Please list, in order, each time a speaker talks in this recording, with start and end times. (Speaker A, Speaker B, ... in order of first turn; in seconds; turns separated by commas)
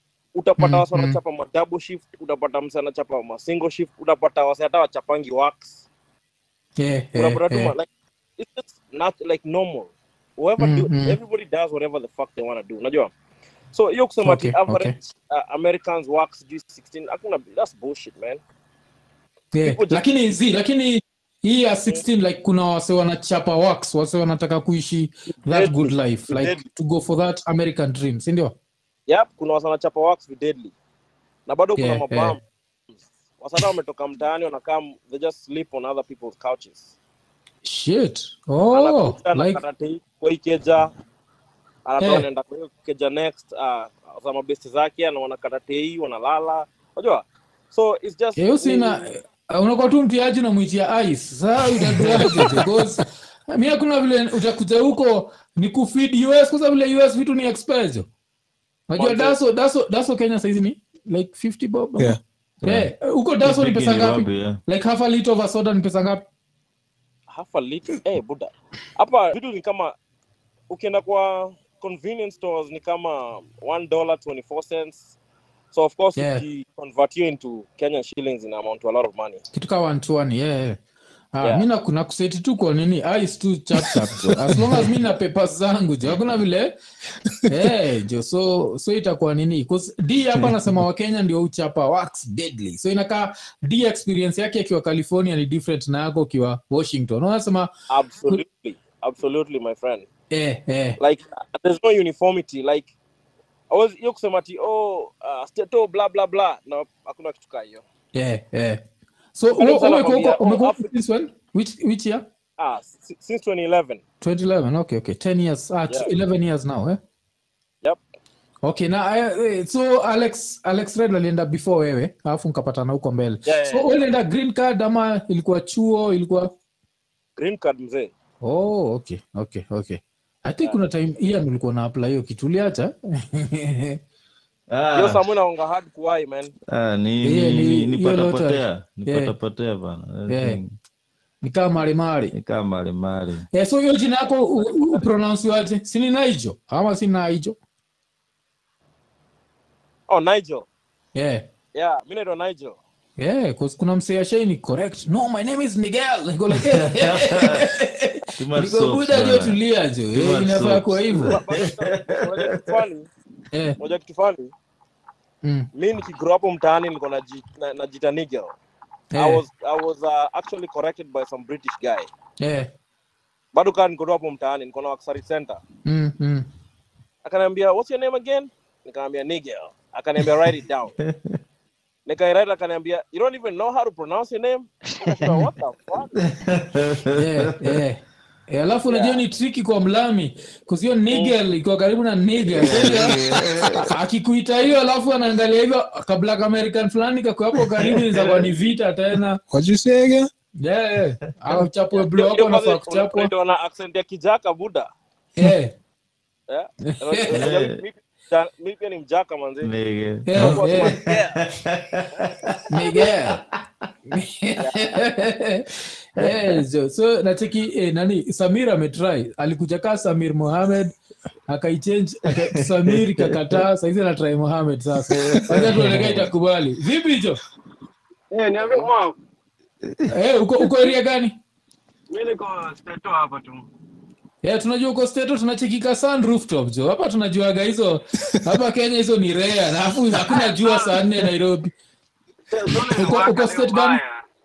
Speaker A: 0.3-5.9, Speaker B: 0.6-1.2, Speaker B: 6.8-7.7, Speaker A: 7.1-13.1, Speaker B: 10.6-11.2, Speaker A: 13.7-18.4, Speaker B: 14.2-14.9, Speaker B: 19.5-28.5, Speaker A: 19.6-20.0, Speaker A: 25.4-26.6, Speaker A: 29.1-30.7, Speaker A: 31.5-32.4, Speaker B: 31.8-32.4, Speaker A: 33.4-36.9, Speaker B: 37.6-39.6, Speaker A: 38.7-40.9, Speaker A: 41.9-49.0, Speaker B: 42.0-42.3, Speaker B: 48.4-58.1, Speaker C: 51.9-52.4, Speaker B: 58.9-66.2, Speaker A: 59.0-59.4, Speaker D: 63.4-64.6, Speaker A: 67.3-69.9, Speaker A: 70.7-75.1, Speaker A: 75.7-79.4, Speaker B: 76.2-76.4, Speaker B: 79.5-80.8, Speaker B: 81.3-86.7, Speaker C: 83.8-84.9, Speaker B: 87.5-97.7, Speaker A: 97.9-100.0, Speaker B: 100.3-101.0, Speaker A: 101.0-102.9, Speaker A: 103.7-107.8, Speaker B: 108.1-108.8, Speaker B: 109.3-112.2, Speaker A: 109.6-110.9, Speaker A: 112.6-114.0, Speaker B: 114.2-117.0, Speaker B: 118.6-126.5, Speaker A: 123.4-123.9, Speaker A: 127.4-128.1, Speaker B: 128.4-134.0, Speaker D: 134.7-135.2, Speaker A: 134.9-136.5, Speaker D: 136.7-140.7, Speaker B: 137.2-139.3, Speaker B: 140.3-140.6, Speaker B: 141.4-142.3, Speaker D: 142.3-143.4, Speaker B: 143.5-147.6, Speaker A: 144.6-145.0, Speaker A: 150.1-150.7, Speaker B: 151.1-151.4, Speaker A: 151.7-152.8, Speaker B: 153.2-161.4, Speaker D: 156.6-157.7, Speaker D: 158.4-159.6, Speaker D: 160.1-162.8, Speaker A: 161.3-163.1, Speaker B: 163.5-163.8, Speaker A: 163.8-164.5, Speaker B: 165.4-165.7, Speaker A: 165.7-168.5, Speaker B: 169.1-169.4, Speaker A: 169.1-172.1, Speaker B: 172.4-172.7, Speaker A: 173.5-175.6, Speaker B: 175.9-176.5, Speaker A: 177.2-180.9, Speaker D: 181.0-181.3, Speaker A: 182.1-186.1, Speaker D: 186.2-187.8, Speaker B: 187.1-199.4, Speaker A: 188.9-189.2, Speaker D: 192.5-193.9, Speaker D: 197.8-198.5, Speaker C: 199.5-200.3, Speaker B: 200.6-203.3, Speaker A: 201.9-204.9, Speaker B: 205.4-205.7, Speaker A: 206.5-209.7, Speaker B: 206.9-207.4, Speaker D: 207.3-207.8, Speaker D: 209.6-213.3, Speaker B: 210.3-210.9, Speaker A: 210.4-211.4, Speaker B: 212.7-213.4, Speaker B: 214.1-220.9, Speaker D: 216.2-216.5, Speaker B: 221.5-227.4, Speaker D: 222.3-223.6, Speaker D: 225.1-226.3, Speaker E: 228.3-229.2, Speaker B: 230.1-231.4, Speaker E: 232.1-233.6, Speaker B: 234.4-241.7, Speaker E: 240.3-241.0, Speaker E: 242.5-244.2, Speaker B: 243.0-244.0